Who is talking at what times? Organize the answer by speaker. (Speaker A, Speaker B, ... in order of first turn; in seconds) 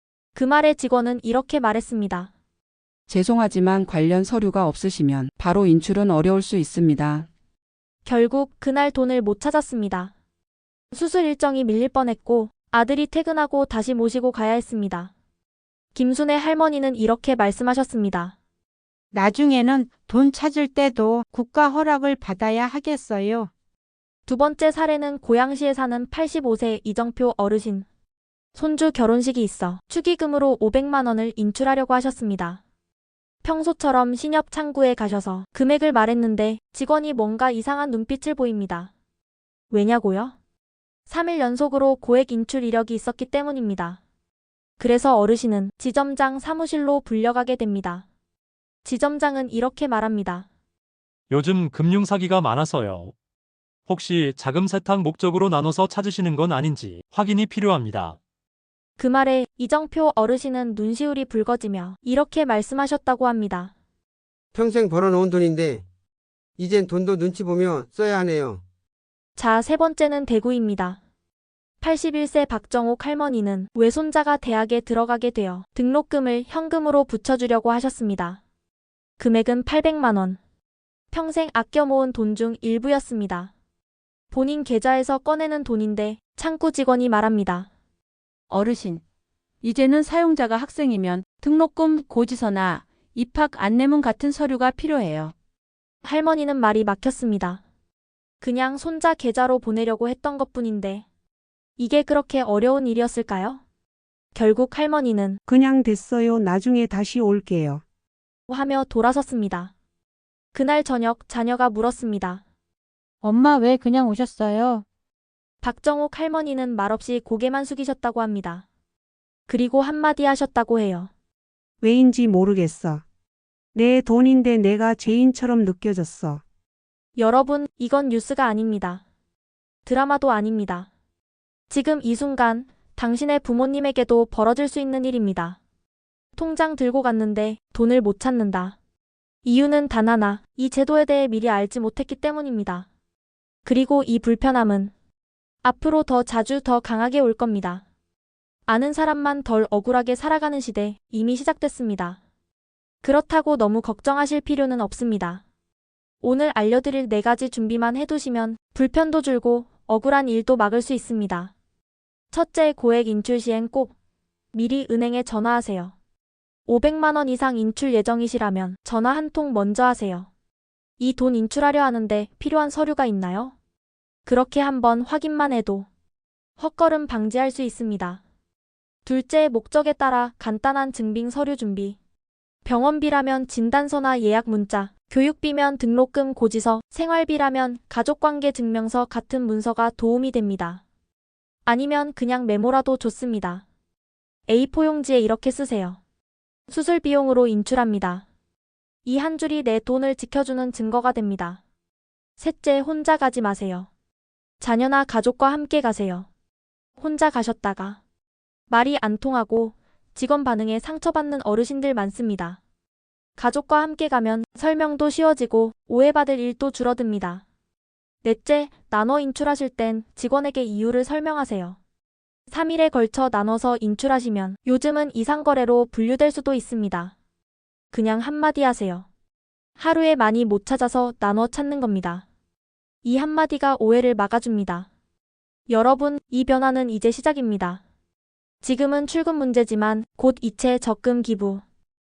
Speaker A: 0.3-2.3, 8.0-10.1, 10.9-15.1, 15.9-18.3, 24.3-27.9, 28.5-32.6, 33.4-38.9, 39.7-40.3, 41.1-44.0, 44.8-48.0, 48.8-50.5, 59.0-63.7, 69.3-71.0, 71.8-78.4, 79.2-80.4, 81.1-83.5, 84.3-87.7, 96.0-97.6, 98.4-101.0, 101.8-103.6, 104.3-105.4, 108.5-109.7, 110.5-112.4, 115.6-118.7, 119.5-121.1, 127.2-129.0, 129.8-130.9, 131.7-135.6, 136.3-138.8, 139.4-142.9, 143.6-144.9, 145.6-147.8, 148.7-152.2, 153.0-155.4, 156.2-161.5, 162.3-163.9, 164.5-165.9, 166.7-170.3, 171.0-173.5, 174.2-175.9, 176.6-178.2, 179.0-182.0, 182.6-190.8, 191.7-193.6, 194.5-196.0, 196.7-198.2, 199.0-201.6, 202.4-203.9, 204.6-206.3, 207.0-208.0, 208.7-212.6, 213.4-217.4, 218.2-221.8, 222.5-227.1, 227.9-229.1, 229.8-232.2, 233.0-234.9, 235.7-237.8, 238.6-241.6
Speaker B: 3.1-7.3
Speaker C: 19.1-23.5, 113.2-114.8
Speaker D: 51.3-53.1, 53.9-58.2
Speaker E: 64.5-65.8, 66.6-68.6
Speaker F: 88.5-89.0, 89.6-95.3
Speaker G: 105.5-107.8, 121.8-123.0, 123.7-126.4